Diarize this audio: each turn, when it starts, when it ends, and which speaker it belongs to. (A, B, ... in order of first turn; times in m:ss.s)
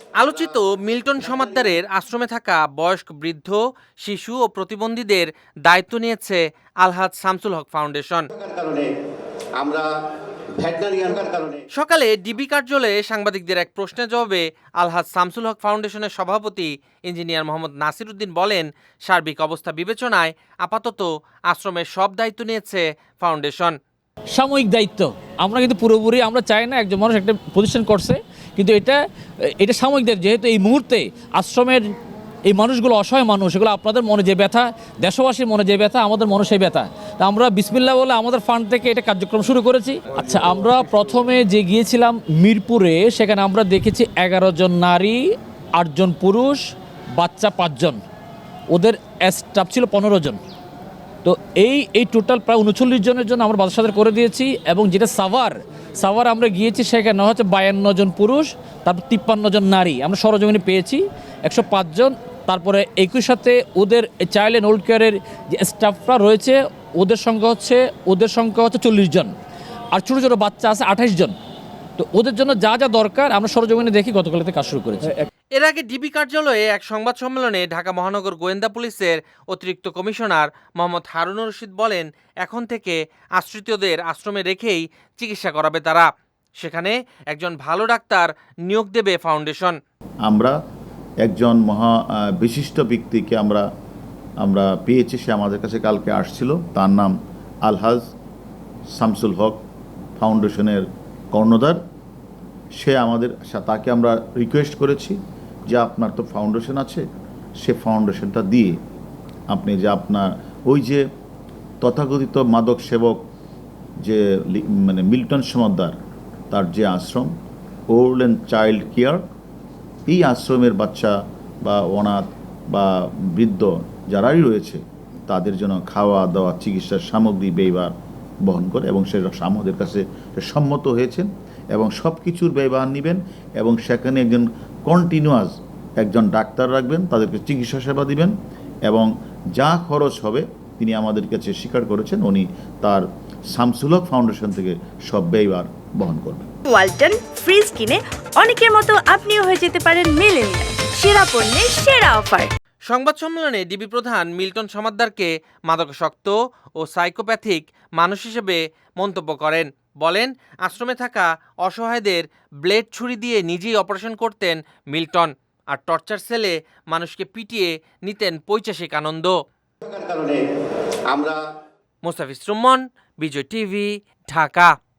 0:00.2-0:08.3 A
0:01.3-0:01.6 B
0:08.3-0:08.9 B
0:09.6-0:09.9 B
0:10.6-0:11.6 B
0:11.8-0:23.7 A
0:24.3-0:31.8 C
0:32.5-0:45.2 C
0:45.8-0:46.6 C
0:47.2-0:48.0 C
0:48.7-0:50.4 C
0:51.2-1:09.3 C
1:09.9-1:11.4 C
1:12.0-1:15.2 C
1:15.6-1:26.1 A
1:26.6-1:29.8 A
1:30.3-1:30.6 D
1:31.2-1:33.6 D
1:34.4-1:37.1 D
1:37.6-1:38.1 D
1:39.0-1:39.6 D
1:40.2-1:41.8 D
1:42.8-1:45.2 D
1:45.7-1:47.0 D
1:47.6-1:48.8 D
1:49.5-1:51.0 D
1:51.8-1:53.2 D
1:54.0-1:56.0 D
1:56.5-1:57.3 D
1:57.9-1:59.2 D
2:00.1-2:07.9 D
2:08.4-2:18.3 D
2:18.9-2:26.4 D
2:26.7-2:32.5 E
2:32.9-2:49.3 A
2:49.8-2:50.4 B
2:51.1-2:51.4 B
2:52.0-2:54.7 A